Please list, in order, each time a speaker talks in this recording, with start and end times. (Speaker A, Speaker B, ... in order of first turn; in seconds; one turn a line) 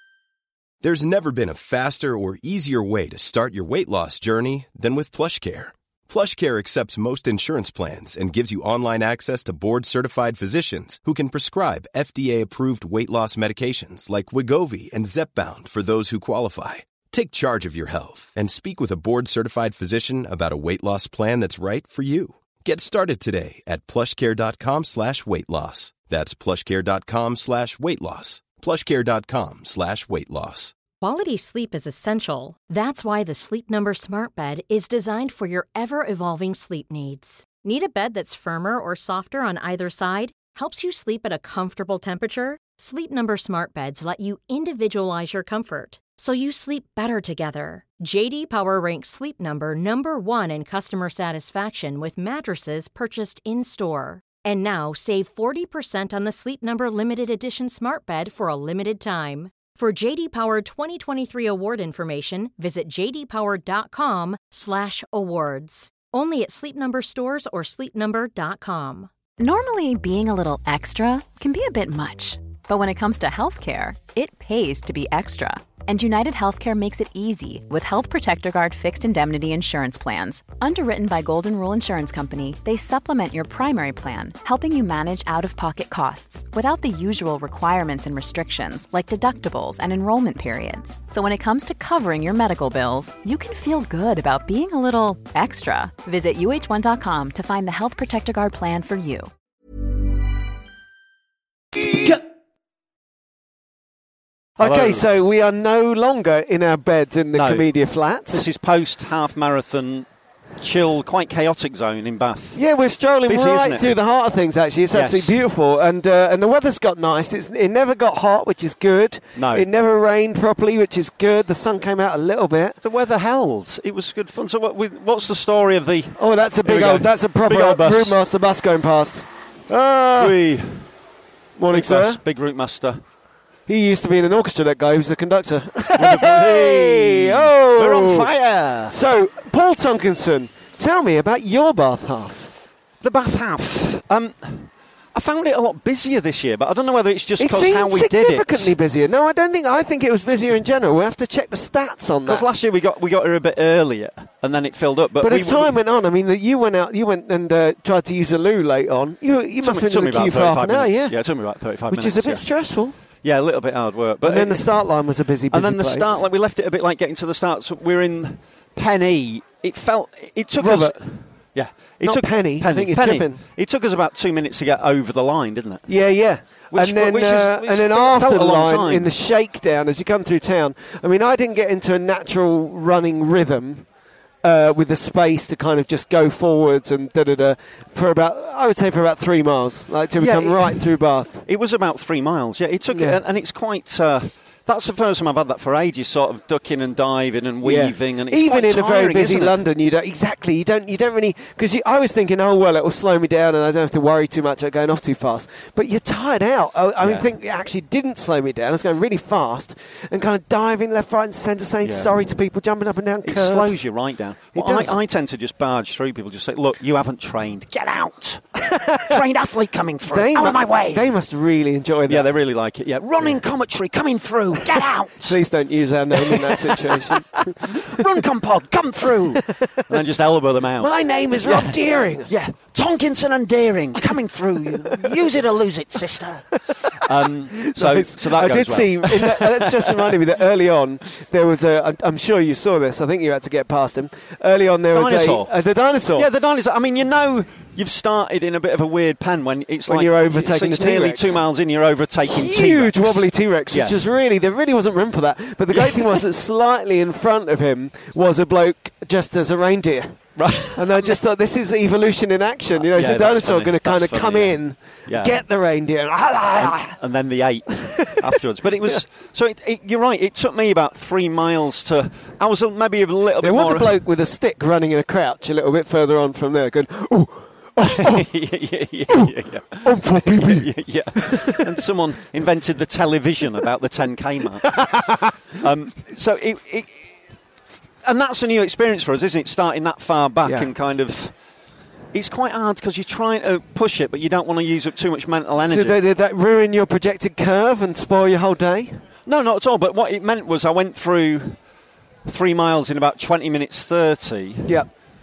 Speaker A: 0.8-30.8
Speaker B: 31.0-69.1
Speaker C: 69.4-99.3
Speaker D: 104.6-108.4
Speaker E: 104.6-105.0
Speaker E: 107.3-110.1
Speaker E: 110.6-112.6
Speaker D: 112.5-122.8
Speaker E: 113.2-114.0
Speaker E: 114.9-115.4
Speaker E: 119.3-119.7
Speaker E: 122.8-128.2
Speaker D: 126.2-130.3
Speaker E: 130.2-130.9
Speaker D: 131.6-132.2
Speaker E: 131.7-133.0
Speaker D: 133.7-138.3
Speaker E: 135.9-138.9
Speaker D: 138.9-142.5
Speaker E: 143.0-148.7
Speaker D: 147.4-152.4
Speaker E: 152.2-155.8
Speaker D: 155.2-161.2
Speaker E: 159.6-179.1
Speaker D: 161.9-163.0
Speaker D: 164.2-166.2
Speaker D: 170.6-173.4
Speaker D: 175.9-183.9
Speaker D: 184.4-191.4
Speaker E: 190.2-199.6
Speaker D: 192.9-193.2
Speaker D: 197.6-213.9
Speaker E: 207.0-207.3
Speaker E: 211.8-212.1
Speaker E: 213.2-221.1
Speaker D: 214.5-215.0
Speaker D: 220.1-222.3
Speaker E: 222.1-225.4
Speaker D: 224.7-227.9
Speaker E: 226.1-240.2
Speaker D: 229.5-229.8
Speaker D: 230.8-232.3
Speaker D: 234.7-235.0
Speaker D: 236.6-246.3
Speaker E: 244.9-245.5
Speaker E: 246.1-254.0
Speaker D: 249.9-251.4
Speaker D: 252.2-267.0
Speaker E: 255.7-256.2
Speaker E: 260.4-261.2
Speaker E: 262.8-265.4
Speaker E: 266.6-274.0
Speaker D: 273.4-278.2
Speaker E: 277.8-287.0
Speaker D: 279.8-281.3
Speaker D: 284.7-285.2
Speaker E: 288.0-291.4
Speaker D: 290.4-290.7
Speaker E: 292.1-296.0
Speaker D: 295.6-299.0
Speaker E: 299.2-301.6
Speaker E: 302.2-304.8